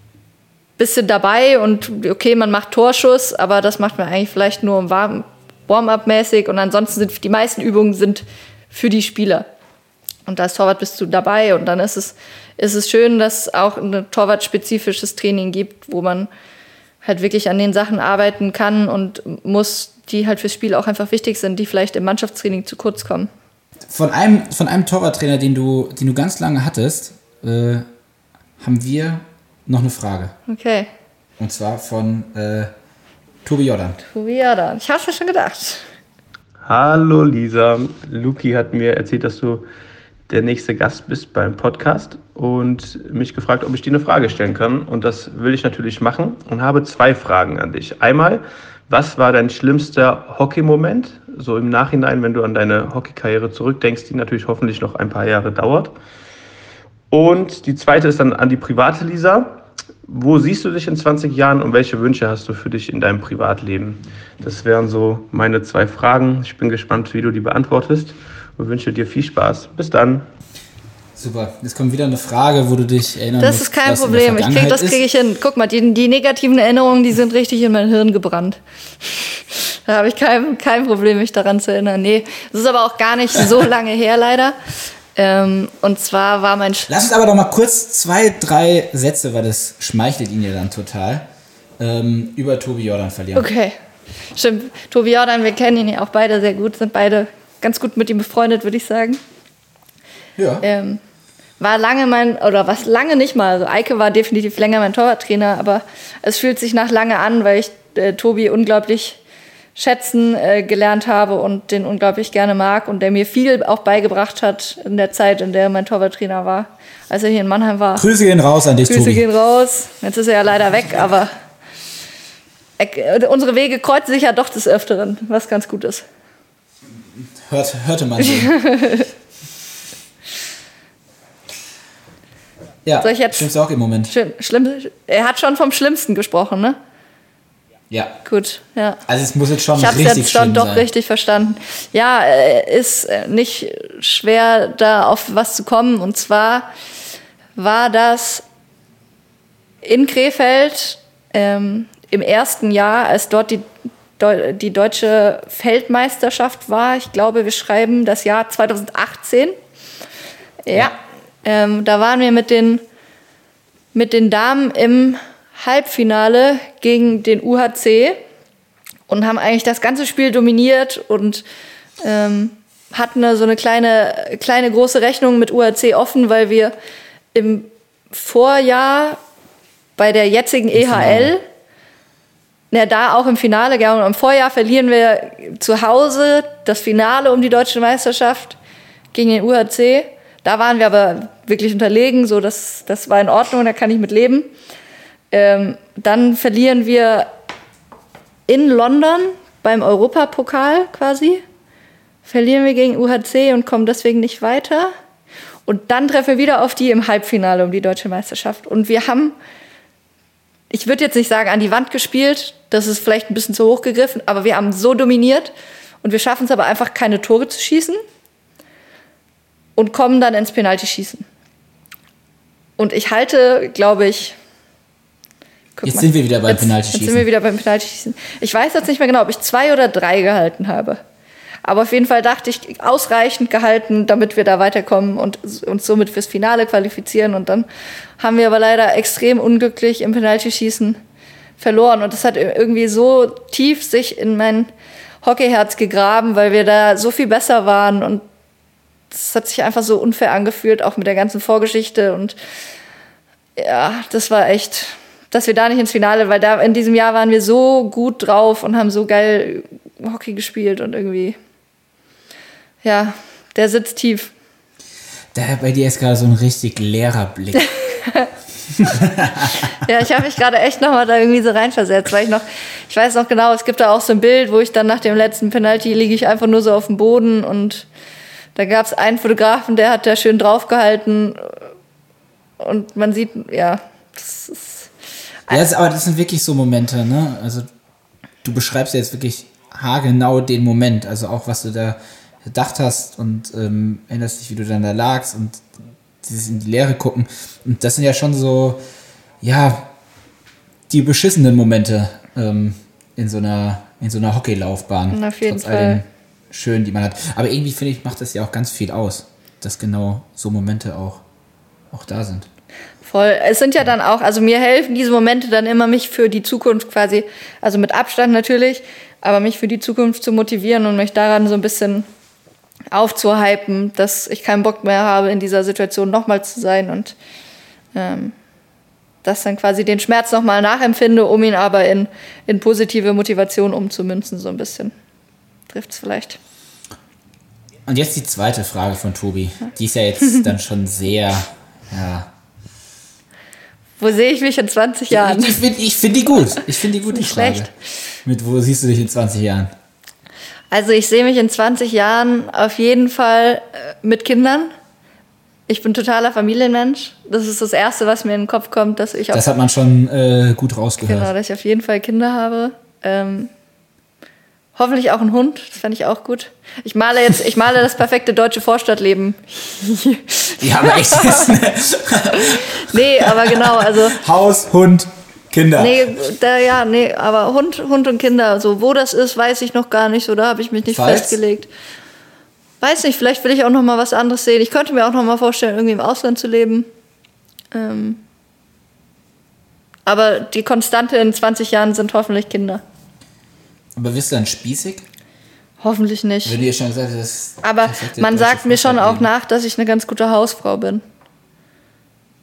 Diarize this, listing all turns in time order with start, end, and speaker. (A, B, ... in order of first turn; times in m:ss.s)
0:00.8-0:09.5 A
0:10.3-0:16.3 A
0:17.0-0:23.3 A
0:23.9-0:27.9 B
0:28.6-0:30.3 B
0:30.5-0:30.9 A
0:31.4-0:32.7 B
0:33.4-0:34.0 B
0:34.0-0:35.9 A
0:36.6-0:39.6 C
0:40.3-0:56.0 C
0:57.1-1:10.3 C
1:11.2-1:15.0 B
1:13.4-1:24.6 A
1:25.2-1:26.9 A
1:26.9-1:31.3 B
1:31.8-1:33.5 B
1:33.3-1:33.8 A
1:34.3-1:39.2 A
1:40.4-1:40.7 B
1:40.6-1:41.0 A
1:41.6-1:49.2 A
1:49.8-1:58.0 A
1:58.0-1:59.2 B
1:58.8-2:01.3 A
2:02.8-2:06.0 A
2:07.1-2:08.6 B
2:08.2-2:09.1 A
2:12.8-2:14.1 B
2:13.0-2:13.5 A
2:14.1-2:16.8 A
2:17.9-2:18.2 B
2:18.2-2:19.0 A
2:19.1-2:20.9 B
2:19.7-2:26.7 A
2:27.6-2:28.4 A
2:29.8-2:33.7 A
2:34.2-2:39.6 A
2:40.6-2:42.8 A
2:43.9-2:48.2 A
2:49.1-2:51.4 A
2:52.0-2:56.7 A
2:57.3-2:59.2 A
3:00.0-3:01.4 A
3:00.7-3:01.3 B
3:02.7-3:08.6 A
3:09.1-3:14.5 A
3:15.3-3:17.3 A
3:18.5-3:21.4 A
3:22.2-3:24.9 A
3:25.7-3:29.4 A
3:30.7-3:38.0 A
3:39.8-3:41.3 A
3:42.8-3:44.4 A
3:45.8-3:51.0 A
3:45.8-3:47.3 B
3:51.6-3:57.7 A
3:58.2-4:01.0 A
4:01.6-4:04.7 A
4:05.2-4:08.2 A
4:09.1-4:12.4 A
4:13.6-4:21.4 A
4:22.8-4:24.3 A
4:25.3-4:27.7 B
4:27.8-4:28.3 A
4:28.8-4:29.7 B
4:29.7-4:37.9 A
4:38.6-4:41.6 A
4:42.6-4:44.9 A
4:45.5-4:47.7 B
4:48.4-4:55.7 B
4:56.2-4:58.8 B
4:59.4-4:59.9 B
5:00.9-5:11.2 B
5:05.1-5:06.0 A
5:11.9-5:12.5 B
5:13.0-5:22.1 A
5:22.9-5:27.2 A
5:27.9-5:28.4 A
5:29.2-5:34.9 A
5:35.7-5:36.4 A
5:37.9-5:42.3 B
5:44.0-5:45.6 A
5:45.1-5:47.7 B
5:47.1-5:47.7 A
5:48.2-5:49.7 B
5:50.7-5:54.7 A
5:55.7-5:59.4 A
5:59.3-6:01.3 B
6:01.0-6:03.5 A
6:04.7-6:11.6 A
6:10.6-6:16.0 B
6:12.3-6:14.2 A
6:15.8-6:21.7 A
6:20.9-6:21.4 B
6:22.8-6:26.9 A
6:27.7-6:28.2 A
6:30.0-6:32.8 A
6:34.0-6:35.0 B
6:35.8-6:36.6 A
6:36.4-6:39.3 B
6:37.6-6:41.0 A